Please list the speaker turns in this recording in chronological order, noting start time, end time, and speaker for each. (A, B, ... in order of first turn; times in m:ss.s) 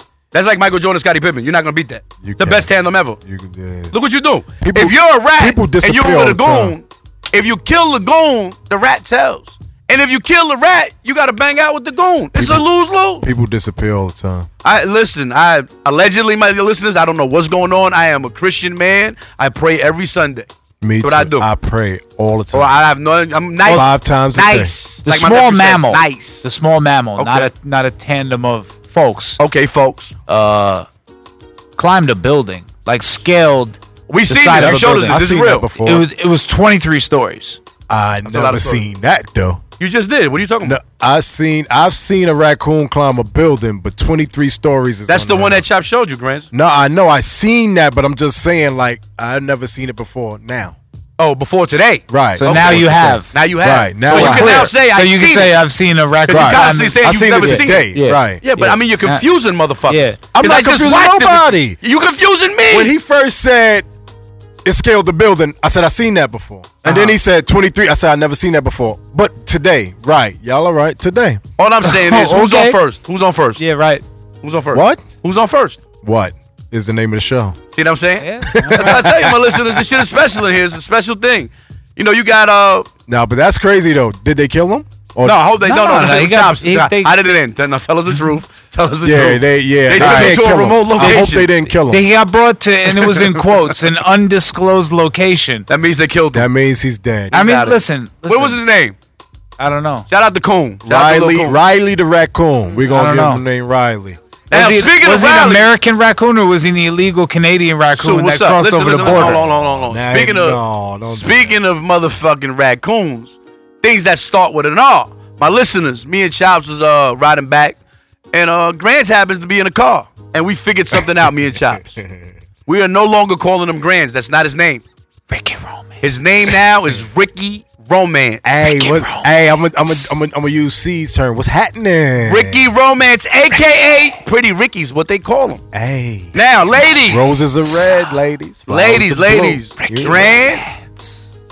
0:00.3-0:03.2 A
0:02.2-0:04.0 B
0:03.9-0:13.2 A
0:04.6-0:06.7 B
0:12.3-0:12.6 B
0:13.2-0:14.5 B
0:14.6-0:20.5 A
0:20.8-0:22.7 B
0:21.0-0:21.5 A
0:22.5-0:26.5 A
0:23.6-0:24.7 B
0:25.0-0:29.4 C
0:27.2-0:27.5 A
0:29.4-0:30.2 A
0:30.3-0:30.8 C
0:31.8-0:37.6 C
0:34.1-0:35.7 A
0:34.5-0:36.1 B
0:37.9-0:39.6 B
0:38.3-0:38.8 A
0:39.8-0:40.8 A
0:40.6-0:45.6 B
0:45.1-0:46.5 A
0:46.5-0:50.8 B
0:51.2-0:55.6 A
0:52.1-0:54.7 B
0:52.4-0:53.3 C
0:54.1-0:59.2 C
0:56.3-1:02.9 A
0:56.3-0:58.4 B
0:59.9-1:00.2 C
1:00.3-1:01.8 B
1:02.7-1:03.9 B
1:04.6-1:11.4 B
1:11.6-1:13.6 A
1:11.8-1:12.8 C
1:13.6-1:14.0 C
1:14.4-1:15.8 A
1:14.7-1:15.0 B
1:16.0-1:17.6 B
1:17.7-1:22.9 A
1:18.2-1:19.0 C
1:18.5-1:19.8 B
1:23.1-1:25.4 B
1:25.2-1:31.5 A
1:25.6-1:27.3 C
1:29.0-1:32.0 B
1:30.0-1:30.4 C
1:31.0-1:35.6 C
1:33.0-1:33.3 A
1:35.7-1:36.5 A
1:36.3-1:37.3 B
1:37.3-1:38.9 A
1:37.3-1:38.6 C
1:39.6-1:40.0 C
1:40.1-1:41.6 A
1:40.8-1:44.2 B
1:42.8-1:43.4 C
1:44.5-1:45.7 A
1:44.5-1:49.4 C
1:47.9-1:57.8 A
1:49.0-1:51.6 B
1:58.3-2:02.0 A
2:02.7-2:04.8 A
2:05.3-2:06.0 C
2:06.0-2:08.4 A
2:08.4-2:12.6 B
2:08.6-2:09.3 C
2:09.9-2:10.2 C
2:12.2-2:15.6 A
2:15.7-2:20.4 B
2:16.3-2:17.3 A
2:18.7-2:20.7 A
2:19.8-2:21.2 C